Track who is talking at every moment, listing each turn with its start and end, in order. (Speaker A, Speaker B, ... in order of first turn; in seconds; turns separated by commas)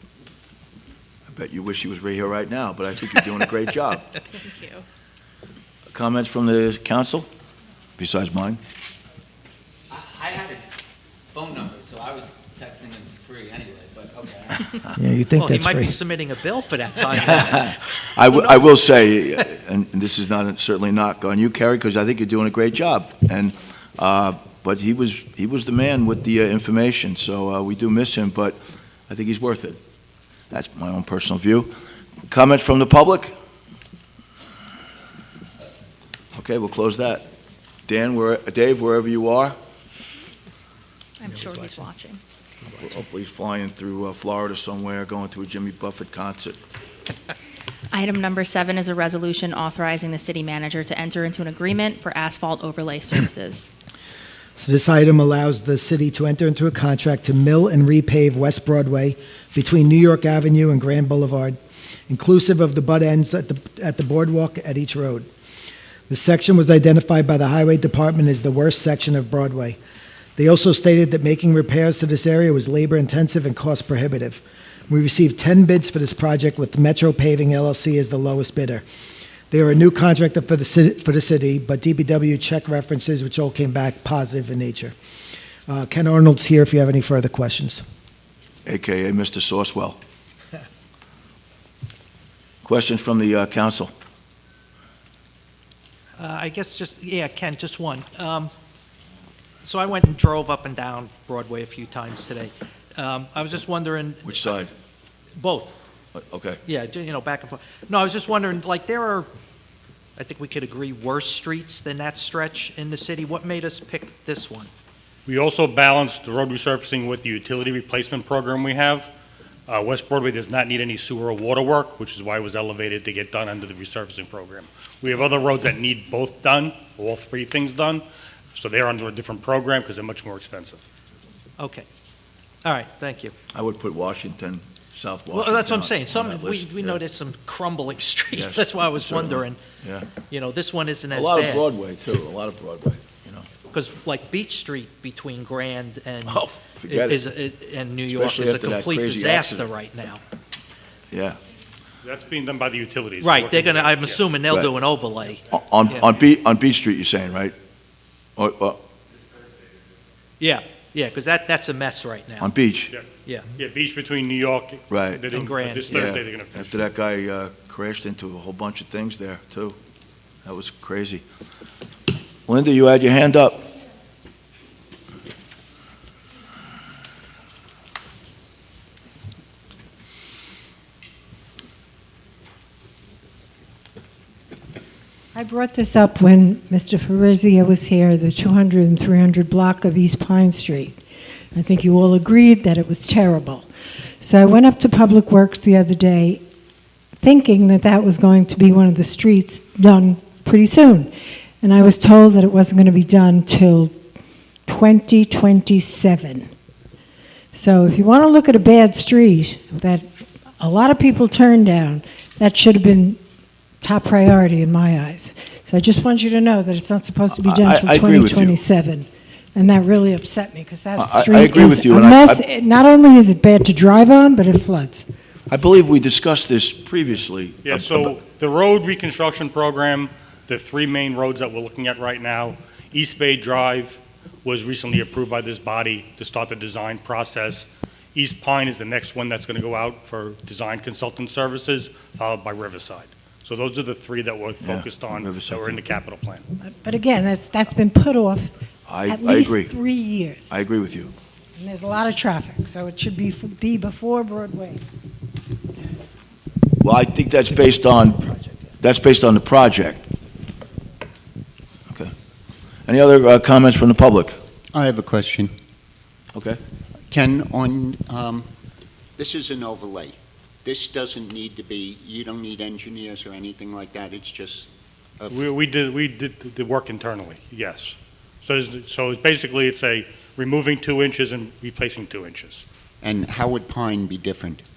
Speaker A: 1.3-4.2, Speaker B: 4.3-4.8, Speaker A: 5.9-7.3, Speaker A: 8.0-8.6, Speaker C: 9.9-10.7, Speaker C: 11.3-14.7, Speaker D: 14.9-15.9, Speaker E: 15.4-19.4, Speaker A: 18.1-29.8, Speaker A: 30.5-31.7, Speaker A: 32.3-33.3, Speaker A: 36.3-37.3, Speaker A: 37.9-39.5, Speaker B: 41.2-42.2, Speaker D: 41.3-41.8, Speaker A: 42.8-46.6, Speaker B: 47.9-53.7, Speaker D: 54.5-61.5, Speaker D: 62.1-65.2, Speaker D: 66.1-69.8, Speaker D: 70.4-78.8, Speaker D: 79.5-84.9, Speaker D: 85.7-87.8, Speaker A: 88.6-90.0, Speaker A: 92.6-93.9, Speaker E: 96.2-98.5, Speaker E: 99.6-104.7, Speaker A: 104.2-104.7, Speaker E: 105.3-105.7, Speaker A: 106.1-106.6, Speaker E: 106.6-109.3, Speaker E: 110.2-114.7, Speaker F: 115.3-119.1, Speaker F: 119.7-130.8, Speaker E: 131.6-131.8, Speaker E: 132.6-133.3, Speaker A: 133.5-137.0, Speaker E: 135.3-139.6, Speaker A: 138.3-140.1, Speaker E: 140.2-141.7, Speaker A: 141.1-143.5, Speaker E: 143.7-150.2, Speaker A: 146.3-147.2, Speaker A: 148.1-149.7, Speaker A: 151.1-151.4, Speaker F: 152.0-154.2, Speaker E: 153.2-156.1, Speaker A: 155.5-157.5, Speaker A: 158.4-158.8, Speaker E: 160.4-162.5, Speaker A: 162.4-162.9, Speaker F: 162.9-166.8, Speaker E: 163.2-163.5, Speaker A: 164.9-165.2, Speaker E: 165.3-166.1, Speaker A: 165.9-169.8, Speaker A: 170.4-171.2, Speaker A: 172.5-173.7, Speaker G: 185.3-191.0, Speaker G: 191.5-193.7, Speaker G: 194.2-196.4, Speaker G: 197.2-201.1, Speaker G: 201.6-203.9, Speaker G: 204.7-206.5, Speaker G: 207.5-210.1, Speaker G: 210.6-213.2, Speaker G: 213.8-225.1, Speaker A: 217.3-218.6, Speaker A: 220.9-222.4, Speaker A: 225.5-228.2, Speaker F: 227.6-246.4, Speaker A: 244.6-245.8, Speaker G: 246.6-248.5, Speaker A: 248.9-249.7, Speaker G: 249.0-250.6, Speaker A: 250.5-251.1, Speaker G: 251.6-254.8, Speaker A: 256.8-260.0, Speaker A: 262.9-264.4, Speaker H: 264.7-265.5, Speaker A: 266.3-266.6, Speaker H: 267.1-268.5, Speaker H: 269.2-275.4, Speaker F: 275.3-282.6, Speaker H: 283.0-284.6